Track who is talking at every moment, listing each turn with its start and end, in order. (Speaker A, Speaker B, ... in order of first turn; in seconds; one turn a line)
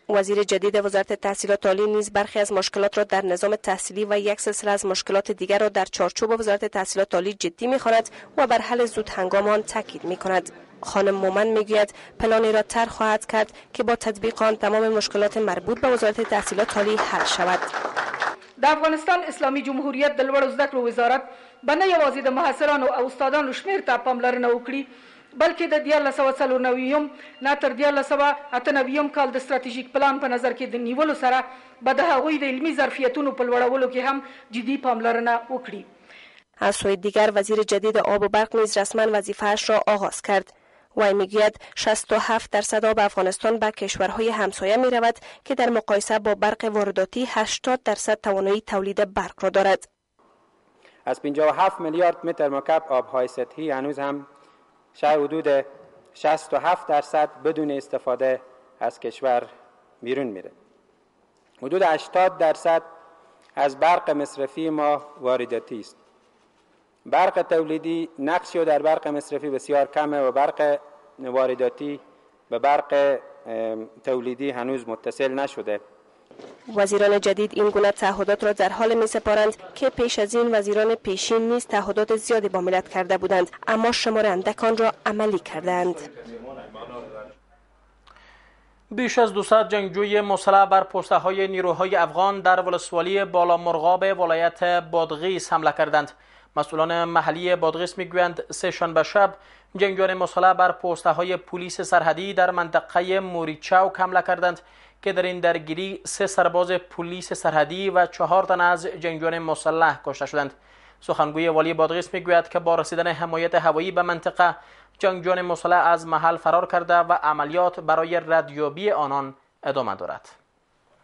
Speaker A: 0.1-17.7
Speaker B: 18.6-35.9
Speaker A: 36.6-49.9
Speaker C: 51.1-54.3
Speaker C: 55.0-59.5
Speaker C: 60.0-60.5
Speaker C: 61.6-62.9
Speaker C: 63.6-66.0
Speaker C: 67.1-75.8
Speaker A: 76.7-86.1
Speaker D: 88.9-120.4